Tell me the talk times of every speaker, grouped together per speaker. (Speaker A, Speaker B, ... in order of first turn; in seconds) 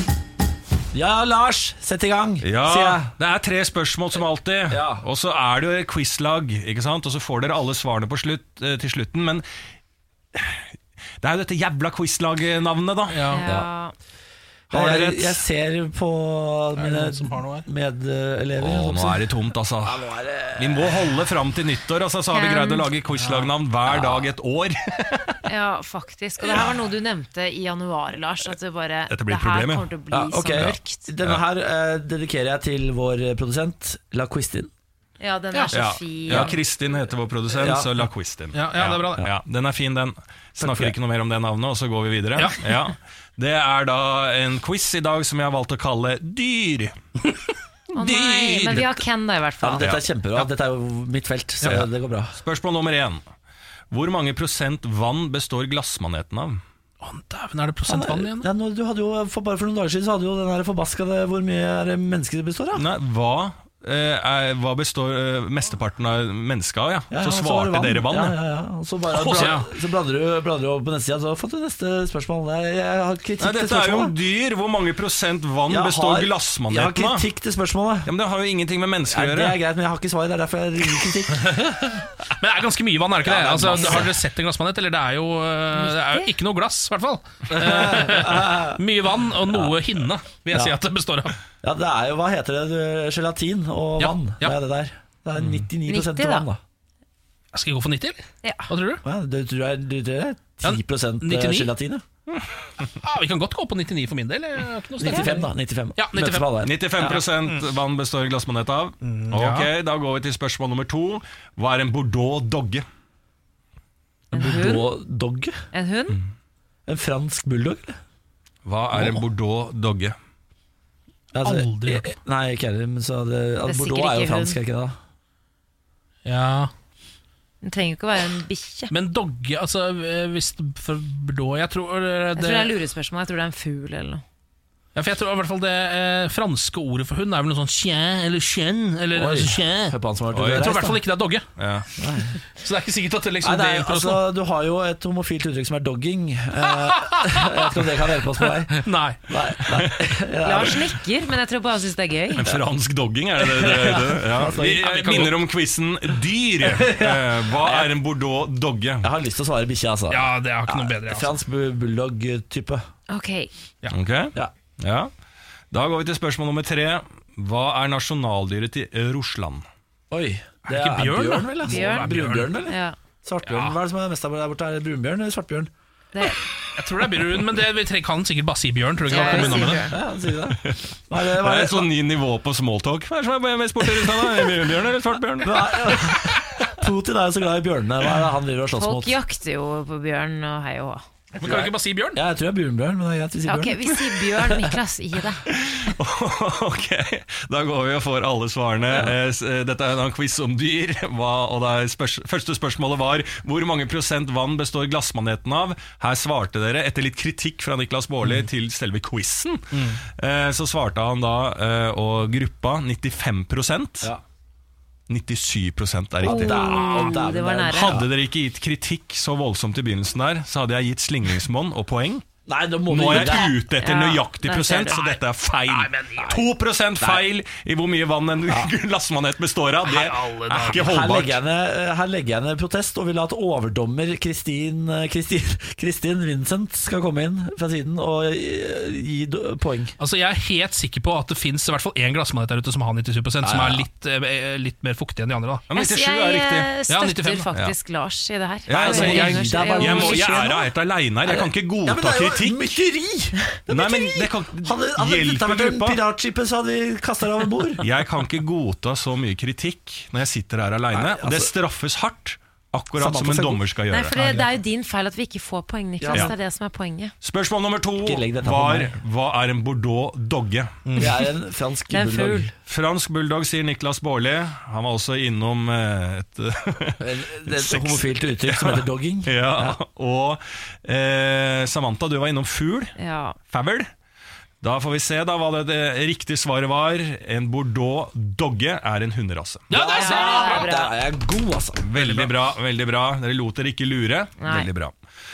Speaker A: 0.9-3.1, 4.7-5.0, 14.7-19.3, 19.8-21.2, 30.1-34.7, 36.3-36.5, 37.5-38.0, 40.6-41.0, 49.6-52.4, 57.8-62.9, 67.1-74.1, 75.7-78.1, 79.1-81.7, 83.2-84.2, 87.5-88.8, 89.5-89.8, 91.6-96.6, 99.0-102.0, 105.0-107.2, 114.3-115.5, 116.9-117.9, 121.3-125.0, 139.1-141.0, 142.0-142.3, 143.4-150.8, 153.4-155.3, 156.6-157.9, 159.0-162.8, 170.1-175.7, 179.1-181.9, 183.9-184.7, 185.4-189.1, 191.4-194.7, 198.9-199.1, 216.2-218.1, 222.5-223.6, 226.2-226.5, 227.0-227.3, 228.5-228.7, 230.7-239.9, 243.4-243.8, 248.7-250.7, 251.2-257.9, 260.9-261.5, 262.9-263.7, 266.0-266.3, 268.0-268.9, 271.0-272.5, 277.0-279.8, 289.7-292.3
Speaker B: 2.4-9.4, 10.3-10.6, 11.2-13.2, 14.7-15.4, 18.6-20.0, 20.6-25.2, 29.1-29.9, 35.7-46.9, 48.0-48.9, 51.7-53.2, 53.9-56.6, 62.7-68.4, 69.1-69.6, 73.4-77.2, 78.0-79.6, 106.6-112.8, 118.6-120.1, 140.3-140.7, 141.6-141.8, 152.4-159.1, 163.9-165.1, 165.7-169.6, 181.3-185.7, 195.5-214.1, 215.1-216.9, 217.7-222.2, 222.9-231.4, 245.7-246.7, 248.7-252.6, 253.7-256.0, 257.8-264.1, 267.2-270.8, 272.6-282.9, 283.5-283.9, 284.6-289.7, 291.8-294.9
Speaker C: 13.1-13.4, 16.8-17.6, 38.5-39.2, 42.4-42.6, 57.0-58.5, 69.3-69.7, 81.5-91.3, 94.0-94.5, 97.5-99.0, 100.6-101.7, 103.0-107.6, 109.0-109.7, 119.0-119.2, 121.4-122.1, 126.2-126.7, 128.9-132.7, 134.9-141.5, 142.6-144.2, 146.8-147.7, 148.4-149.2, 154.8-155.4, 160.1-161.3, 170.7-172.5, 173.4-173.7, 176.7-179.9, 191.3-192.2, 225.7-226.3, 229.8-231.1, 240.0-245.7, 246.9-247.4, 249.0-249.4, 264.1-264.5, 270.9-271.1, 289.7-290.7
Speaker D: 13.3-13.9, 22.3-22.9, 25.5-31.1, 35.2-36.6, 47.9-50.0, 85.8-86.3, 95.8-96.5, 98.4-98.7, 114.3-114.9, 115.7-116.2, 123.6-124.6, 127.6-128.9, 132.3-134.2, 150.4-152.4, 163.1-163.5, 171.7-172.1, 172.7-172.9, 179.1-179.9, 188.7-191.0, 193.5-195.4, 216.2-218.0, 223.0-225.2, 245.7-250.5, 263.9-267.1, 271.9-272.5, 282.9-283.4, 289.8-290.9, 294.4-294.7